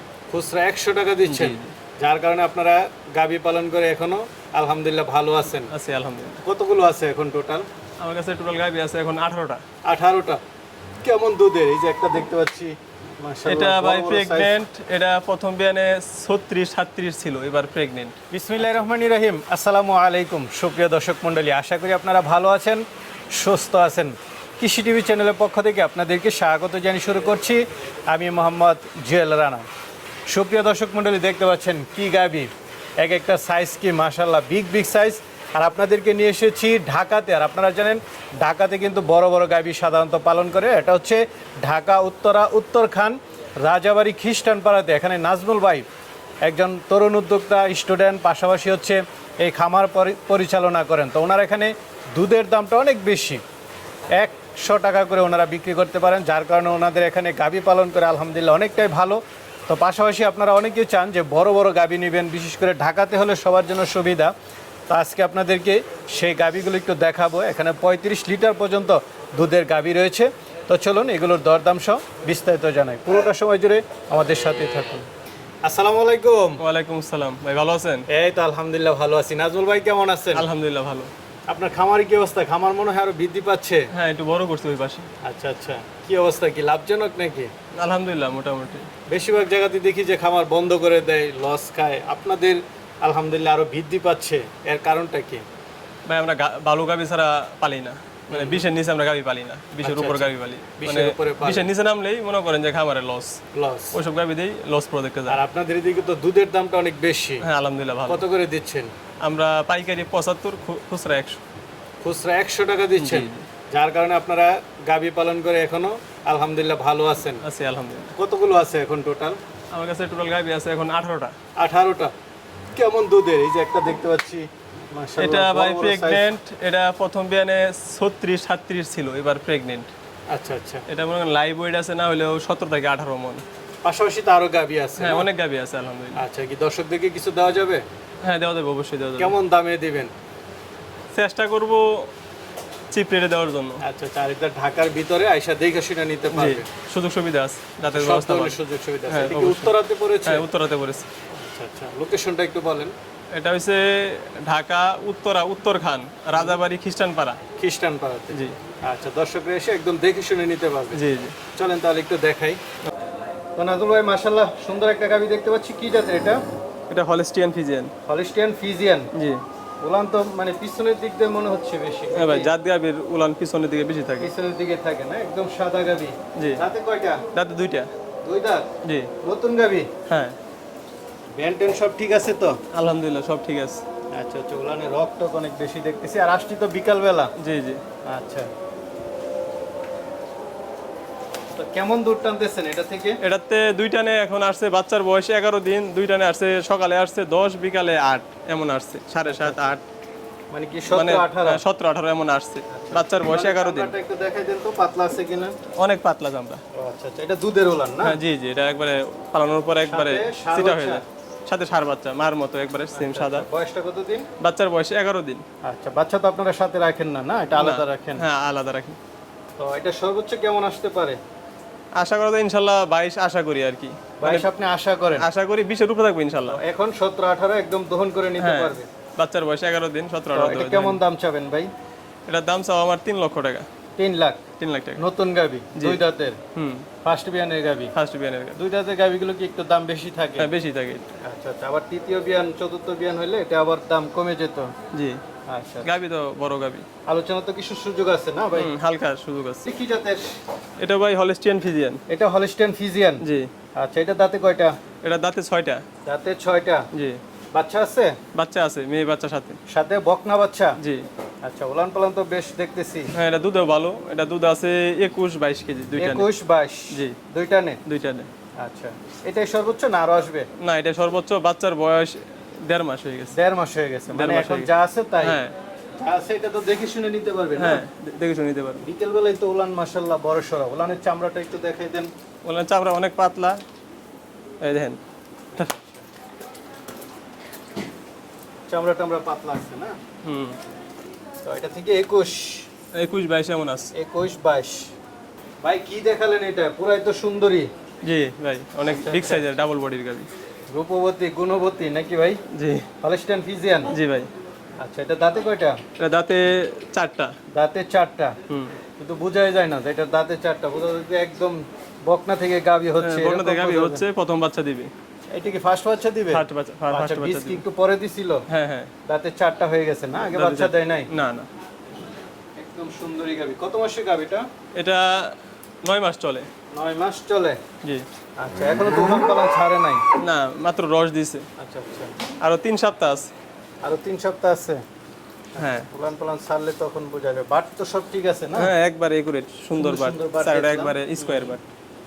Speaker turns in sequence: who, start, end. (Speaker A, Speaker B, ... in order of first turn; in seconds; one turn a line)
Speaker A: 0.3-5.7
Speaker B: 1.2-1.7
Speaker B: 5.7-6.4
Speaker A: 6.4-7.7
Speaker B: 8.0-9.6
Speaker A: 9.9-10.4
Speaker A: 11.0-14.6
Speaker B: 13.5-18.2
Speaker A: 18.3-22.8
Speaker A: 23.3-29.6
Speaker A: 30.3-32.5
Speaker A: 33.0-45.9
Speaker A: 46.5-53.4
Speaker A: 54.2-64.3
Speaker A: 64.9-75.1
Speaker A: 75.6-76.6
Speaker B: 76.6-78.1
Speaker A: 78.1-80.5
Speaker B: 80.3-81.1
Speaker A: 81.5-83.9
Speaker B: 83.9-85.1
Speaker A: 85.2-87.5
Speaker B: 87.8-88.9
Speaker A: 89.1-95.4
Speaker B: 96.1-103.4
Speaker A: 98.3-98.7
Speaker A: 99.8-101.7
Speaker A: 103.5-104.0
Speaker B: 103.9-105.4
Speaker A: 105.3-107.5
Speaker B: 107.4-108.2
Speaker A: 108.1-108.9
Speaker B: 109.2-111.4
Speaker A: 112.0-117.4
Speaker B: 113.0-113.5
Speaker B: 117.4-118.2
Speaker A: 118.2-119.4
Speaker B: 119.7-121.3
Speaker A: 121.6-122.1
Speaker A: 122.8-126.3
Speaker B: 125.2-129.9
Speaker A: 130.3-130.8
Speaker B: 130.9-133.4
Speaker A: 133.8-135.3
Speaker B: 135.0-136.2
Speaker A: 136.2-137.8
Speaker B: 138.2-139.3
Speaker A: 139.2-140.1
Speaker B: 141.1-142.1
Speaker B: 142.9-143.8
Speaker A: 143.8-146.7
Speaker B: 146.3-148.6
Speaker A: 147.9-150.5
Speaker B: 149.1-151.1
Speaker A: 151.3-152.9
Speaker B: 153.3-157.4
Speaker A: 157.6-161.0
Speaker B: 158.3-158.6
Speaker B: 160.9-161.4
Speaker A: 161.6-162.6
Speaker A: 163.6-166.4
Speaker B: 166.9-167.9
Speaker A: 168.1-169.1
Speaker B: 169.1-169.4
Speaker A: 169.8-172.5
Speaker B: 172.1-174.3
Speaker A: 174.2-177.2
Speaker B: 176.4-176.6
Speaker B: 177.3-177.9
Speaker A: 178.2-178.7
Speaker B: 178.8-179.1
Speaker A: 179.2-179.9
Speaker B: 180.1-180.4
Speaker A: 181.4-182.6
Speaker B: 182.7-183.8
Speaker A: 184.1-187.3
Speaker B: 187.4-187.8
Speaker A: 188.1-188.5
Speaker A: 191.6-193.2
Speaker B: 193.2-199.8
Speaker A: 199.3-199.8
Speaker A: 200.5-201.6
Speaker B: 200.9-203.9
Speaker A: 202.7-205.6
Speaker B: 205.8-206.6
Speaker A: 206.8-208.2
Speaker B: 208.0-213.5
Speaker A: 209.9-211.0
Speaker A: 212.9-214.3
Speaker B: 214.4-215.4
Speaker A: 215.6-218.2
Speaker B: 217.6-219.0
Speaker A: 219.6-221.2
Speaker B: 222.0-224.5
Speaker A: 224.2-225.3
Speaker B: 225.2-226.6
Speaker A: 226.5-228.9
Speaker B: 228.4-231.0
Speaker A: 230.3-231.7
Speaker B: 232.3-233.7
Speaker A: 234.0-234.4
Speaker B: 234.6-235.0
Speaker A: 235.0-236.4
Speaker B: 236.6-236.9
Speaker A: 237.0-237.9
Speaker B: 238.0-238.6
Speaker A: 238.6-240.5
Speaker B: 240.4-241.1
Speaker A: 241.2-244.7
Speaker B: 244.9-245.2
Speaker A: 245.5-245.9
Speaker B: 245.8-246.9
Speaker A: 247.1-248.7
Speaker B: 248.6-249.7
Speaker A: 249.7-250.3
Speaker B: 250.8-252.0
Speaker A: 252.1-253.2
Speaker B: 253.2-253.5
Speaker A: 253.8-254.8
Speaker B: 255.0-255.8
Speaker A: 256.1-256.9
Speaker B: 256.9-257.2
Speaker A: 257.5-258.2
Speaker B: 258.4-259.6
Speaker A: 259.7-260.8
Speaker B: 260.8-261.1
Speaker A: 261.4-263.1
Speaker B: 263.1-266.3
Speaker A: 266.0-267.8
Speaker B: 266.9-267.2
Speaker B: 267.9-268.3
Speaker A: 268.6-270.5
Speaker B: 270.6-273.4
Speaker A: 273.3-275.4
Speaker B: 274.1-274.7
Speaker B: 275.2-275.6
Speaker A: 276.0-277.8
Speaker B: 277.6-278.9
Speaker A: 278.8-282.1
Speaker B: 282.4-283.6
Speaker B: 284.6-285.0
Speaker A: 285.5-286.0
Speaker A: 288.7-289.9
Speaker B: 290.2-290.6
Speaker A: 291.4-292.7
Speaker B: 292.9-293.9
Speaker A: 293.9-294.9
Speaker A: 295.6-297.7
Speaker B: 298.1-300.3
Speaker A: 298.8-299.5
Speaker A: 300.7-302.4
Speaker B: 302.5-302.9
Speaker A: 303.0-303.9
Speaker B: 303.9-304.3
Speaker A: 304.8-305.8
Speaker B: 306.0-307.3
Speaker A: 307.5-308.4
Speaker B: 308.5-308.8
Speaker A: 309.0-314.0
Speaker B: 313.0-314.9
Speaker A: 315.3-318.4
Speaker B: 316.3-317.6
Speaker B: 318.5-318.9
Speaker A: 319.1-321.1
Speaker B: 320.3-321.5
Speaker A: 322.6-324.5
Speaker B: 324.8-326.5
Speaker A: 326.7-327.6
Speaker A: 328.4-330.0
Speaker B: 330.2-331.5
Speaker A: 331.6-332.1
Speaker B: 332.4-333.3
Speaker A: 333.8-334.8
Speaker A: 335.6-338.7
Speaker B: 335.6-335.9
Speaker B: 338.6-341.6
Speaker A: 339.8-341.6